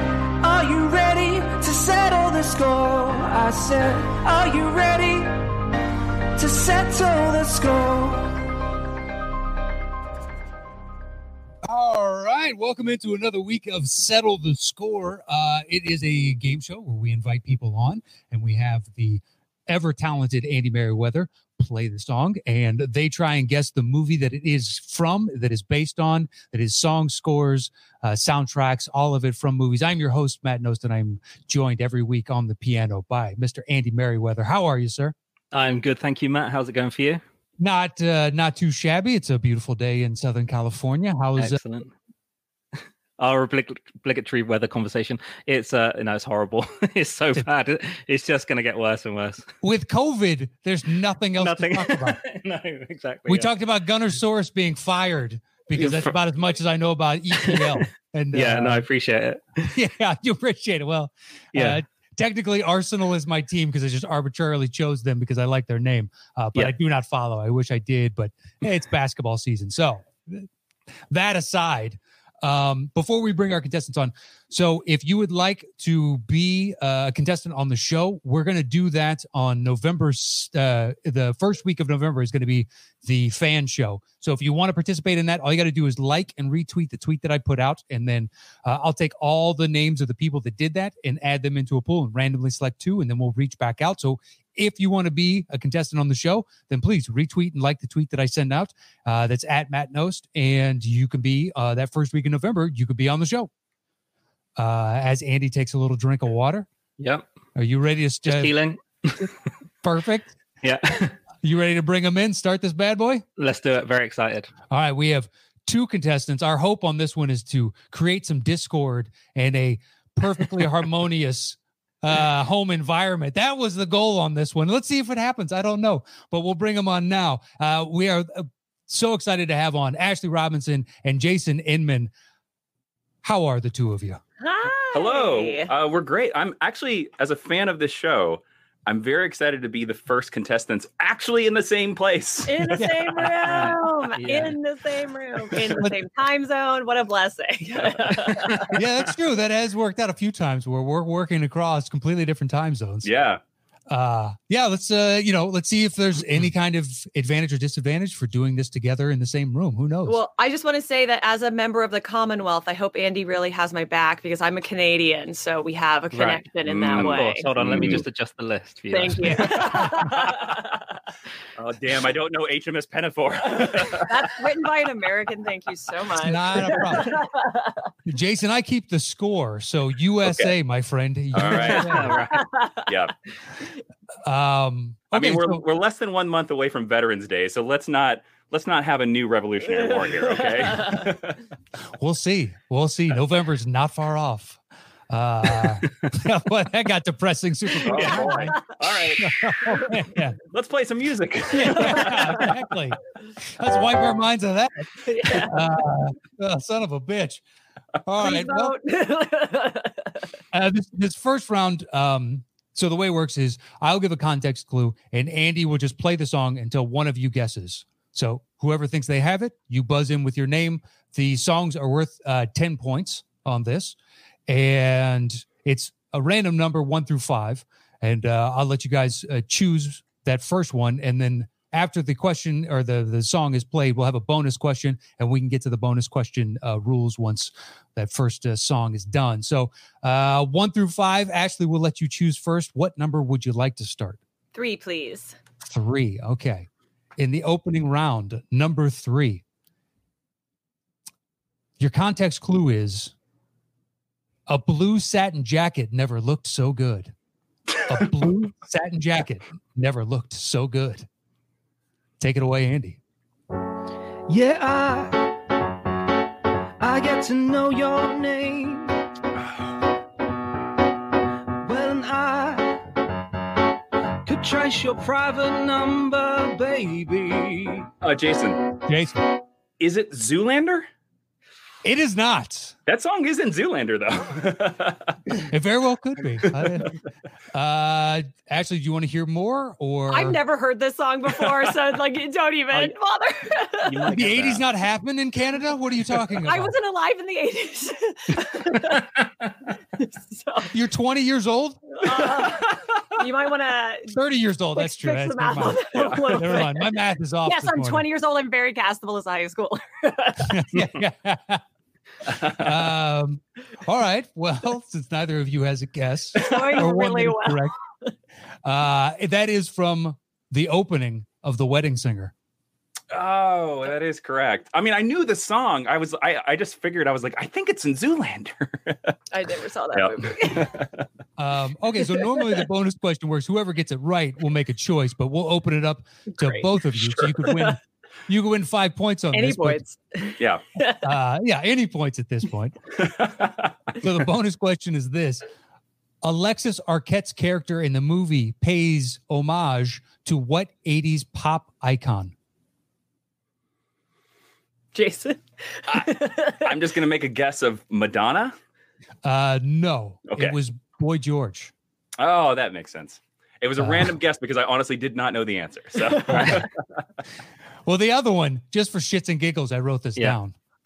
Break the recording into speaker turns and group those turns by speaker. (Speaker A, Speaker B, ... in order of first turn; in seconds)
Speaker A: 0.4-5.5, 6.3-8.5, 264.3-265.3, 266.8-268.9, 271.6-272.8, 274.2-277.9
Speaker B: 11.7-35.1, 37.6-41.6, 49.6-52.2, 53.3-58.9, 59.6-70.5, 71.1-103.5, 104.6-106.7, 107.5-108.5, 109.8-110.3, 111.4-113.2, 114.7-132.1, 133.2-134.2, 142.8-143.3, 148.7-153.1, 153.9-160.2, 176.2-177.2, 178.1-182.2, 184.2-185.6, 192.0-198.6, 199.2-200.4, 201.5-207.4, 208.0-208.7, 210.5-223.9, 224.5-244.2, 245.6-249.4, 251.8-253.1, 254.5-257.1, 257.9-261.1, 262.2-263.0, 278.8-279.2, 281.8-282.8, 285.4-287.0, 287.5-290.4, 294.1-296.7, 300.7-302.0, 304.1-308.0, 310.4-311.6, 312.2-317.7, 318.6-322.3, 331.4-339.8, 341.0-342.9, 343.9-345.4, 346.2-352.3, 359.2-361.7, 363.8-364.1, 366.3-366.6, 367.8-370.5
Speaker C: 35.5-37.2, 41.4-41.9, 43.2-49.5, 51.4-53.5, 55.8-56.1, 57.4-59.7, 61.5-61.8, 107.0-107.2, 108.3-109.3, 110.6-111.1, 113.4-114.5, 143.5-144.6, 166.1-169.7, 181.4-182.4, 197.9-198.2
Speaker D: 134.4-135.7, 142.5-148.8, 160.1-167.5, 168.9-170.6, 173.9-177.8, 182.2-182.9, 190.7-191.0, 198.1-198.6, 199.7-199.9, 201.7-202.1, 205.0-205.7, 208.2-210.2, 244.5-245.4, 290.1-294.1, 296.4-299.1, 299.9-300.7, 302.0-304.1, 304.8-306.9, 307.4-310.7, 316.3-318.1, 329.3-330.8, 332.2-332.6, 336.3-336.7, 337.5-337.7, 339.3-341.0, 354.9-356.7
Speaker E: 134.9-142.8, 147.8-148.2, 153.0-153.4, 166.6-168.1, 169.4-170.4, 171.6-174.1, 180.2-180.5, 181.3-182.3, 182.8-183.1, 185.1-191.4, 197.8-199.6, 200.4-202.5, 278.0-278.6, 279.8-280.9, 282.9-285.4, 293.9-294.6, 305.9-306.6, 323.1-329.1, 329.9-331.0, 337.0-337.3, 343.0-343.7, 355.9-358.5, 360.3-360.6, 362.2-366.8